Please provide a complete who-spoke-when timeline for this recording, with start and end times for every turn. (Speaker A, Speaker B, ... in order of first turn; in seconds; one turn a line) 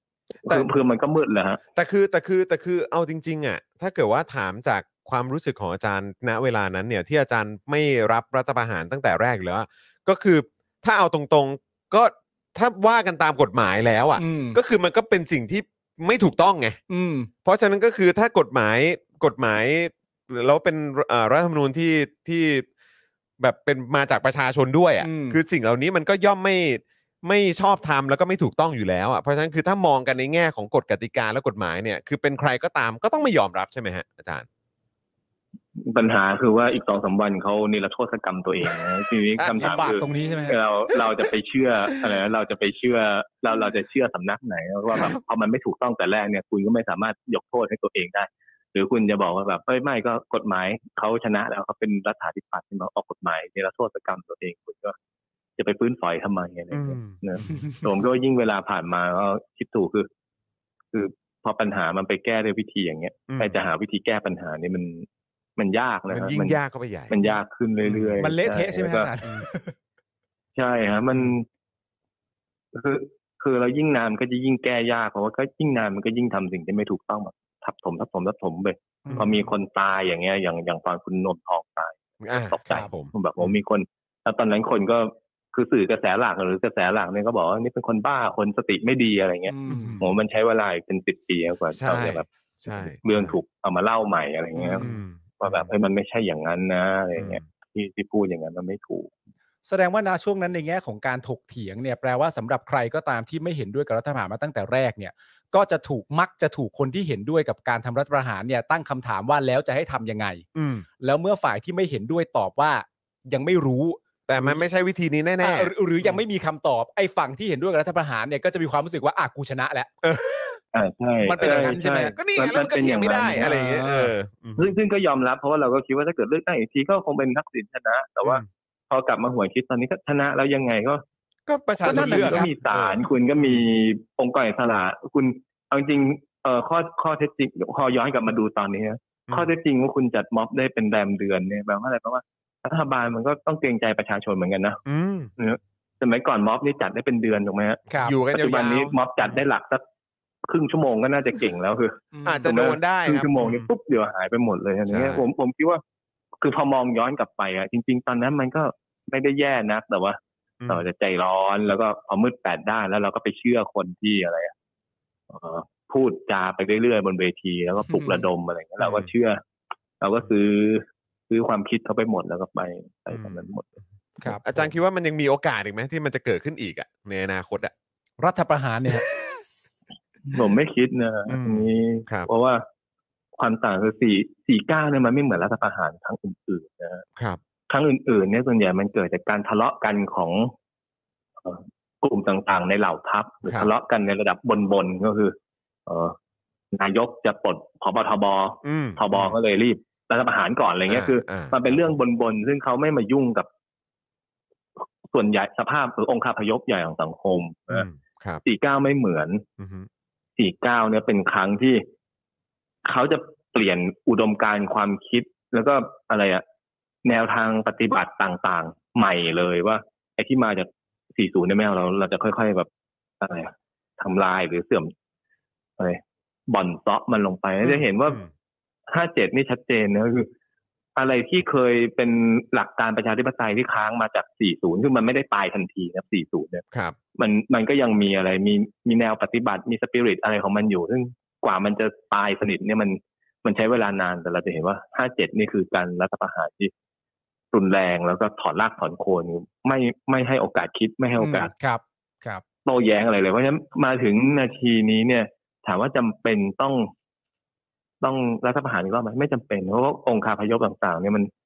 Speaker A: 0.4-1.6
Speaker B: 1.7-16.8
Speaker C: 14.2-14.6
Speaker C: 16.9-17.3
Speaker B: 17.4-22.6
Speaker B: 23.4-34.5
Speaker C: 25.0-25.4
Speaker A: 35.9-54.9
Speaker B: 39.3-39.7
Speaker C: 39.6-40.6
Speaker A: 55.6-60.1
Speaker B: 56.7-57.2
Speaker A: 60.9-65.0
Speaker B: 63.3-63.5
Speaker A: 65.6-69.1
Speaker B: 66.1-67.2
Speaker B: 67.8-68.2
Speaker C: 68.2-69.8
Speaker A: 70.5-71.5
Speaker A: 72.7-99.1
Speaker C: 79.0-79.4
Speaker B: 79.1-79.4
Speaker B: 82.2-83.5
Speaker C: 82.6-82.9
Speaker C: 89.5-90.1
Speaker B: 89.7-90.0
Speaker B: 91.7-93.3
Speaker C: 94.5-95.0
Speaker B: 94.7-95.7
Speaker B: 97.2-97.4
Speaker C: 99.6-110.4
Speaker B: 110.5-110.8
Speaker C: 111.0-114.6
Speaker B: 114.3-116.2
Speaker C: 115.4-119.9
Speaker B: 120.0-120.6
Speaker A: 120.7-123.5
Speaker C: 121.2-122.2
Speaker B: 121.3-124.7
Speaker C: 123.3-124.1
Speaker A: 124.6-131.0
Speaker B: 131.5-133.6
Speaker C: 131.8-132.5
Speaker A: 131.8-144.8
Speaker B: 144.8-145.3
Speaker A: 145.4-149.8
Speaker C: 147.9-148.2
Speaker B: 148.0-149.4
Speaker A: 150.5-155.8
Speaker C: 152.1-152.5
Speaker B: 152.2-153.7
Speaker B: 154.9-155.2
Speaker A: 156.4-160.2
Speaker A: 160.7-164.5
Speaker A: 165.3-169.4
Speaker C: 167.9-168.3
Speaker B: 168.8-169.1
Speaker A: 170.0-173.7
Speaker B: 173.1-173.5
Speaker C: 174.2-174.7
Speaker B: 174.2-177.7
Speaker C: 178.2-179.0
Speaker A: 180.3-182.6
Speaker B: 181.3-182.3
Speaker A: 183.4-187.0
Speaker A: 187.7-190.5
Speaker A: 191.4-195.3
Speaker A: 195.9-196.1
Speaker A: 196.7-203.5
Speaker B: 198.6-199.3
Speaker B: 200.9-201.6
Speaker A: 205.1-207.9
Speaker B: 207.7-208.4
Speaker A: 208.4-209.4
Speaker B: 209.6-209.9
Speaker A: 210.4-211.8
Speaker A: 212.8-216.4
Speaker A: 217.0-222.7
Speaker A: 223.2-224.9
Speaker A: 225.8-228.2
Speaker B: 227.6-228.3
Speaker A: 228.9-230.3
Speaker A: 230.9-236.6
Speaker A: 237.2-246.7
Speaker A: 247.5-251.5
Speaker C: 251.2-252.4
Speaker A: 252.7-256.9
Speaker A: 258.0-261.3